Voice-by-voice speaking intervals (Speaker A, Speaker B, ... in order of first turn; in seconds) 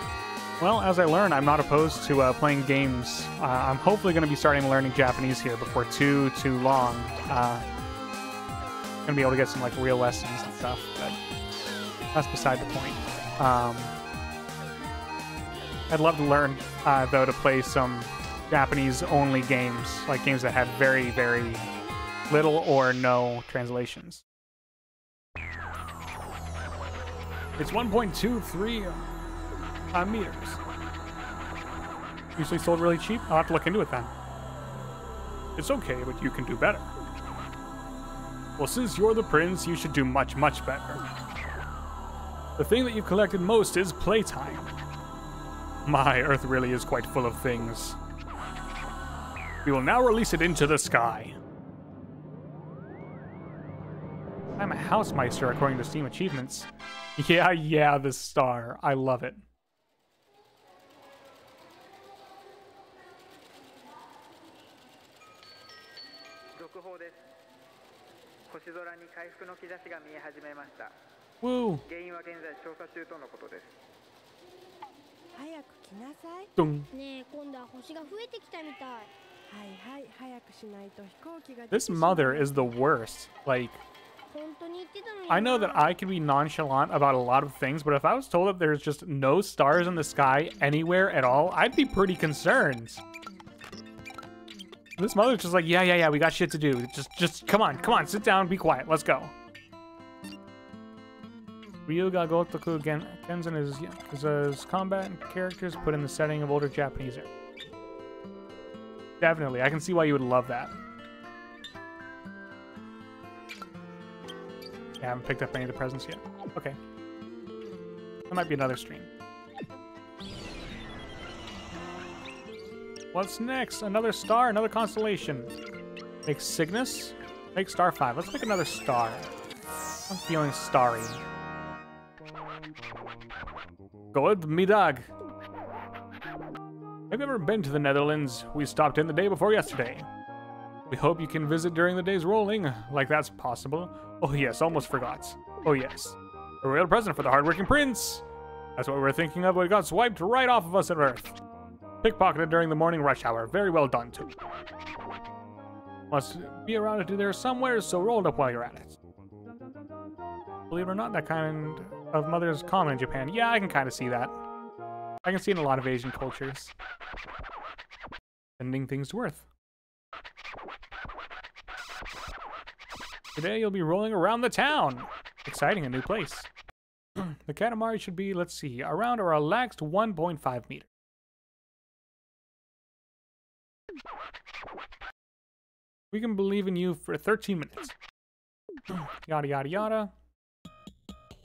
Speaker A: 0.6-7.7, 9.1-11.2, 12.1-13.9, 15.9-21.7, 22.3-24.2, 27.6-29.1, 29.9-30.6, 32.4-34.1, 35.6-36.9, 38.6-41.0, 42.6-44.7, 45.9-48.0, 49.6-51.4, 54.6-59.5, 71.4-71.8, 76.6-76.9, 81.7-83.8, 85.3-93.0, 95.0-99.3, 101.9-107.3, 109.2-110.8, 115.0-116.8, 118.3-119.1, 123.1-125.5, 126.2-129.3, 130.1-131.2, 134.1-135.1, 137.1-140.1, 140.9-148.2, 148.8-151.4, 152.0-154.3, 156.1-159.0, 160.7-164.4, 165.2-166.7, 168.6-169.5, 173.4-176.5, 177.2-180.9, 186.1-187.9, 188.9-190.1
Speaker B: 66.6-67.2, 68.5-70.9, 71.9-73.7
Speaker C: 75.3-76.5, 79.5-82.7
Speaker D: 76.9-79.1, 84.3-85.9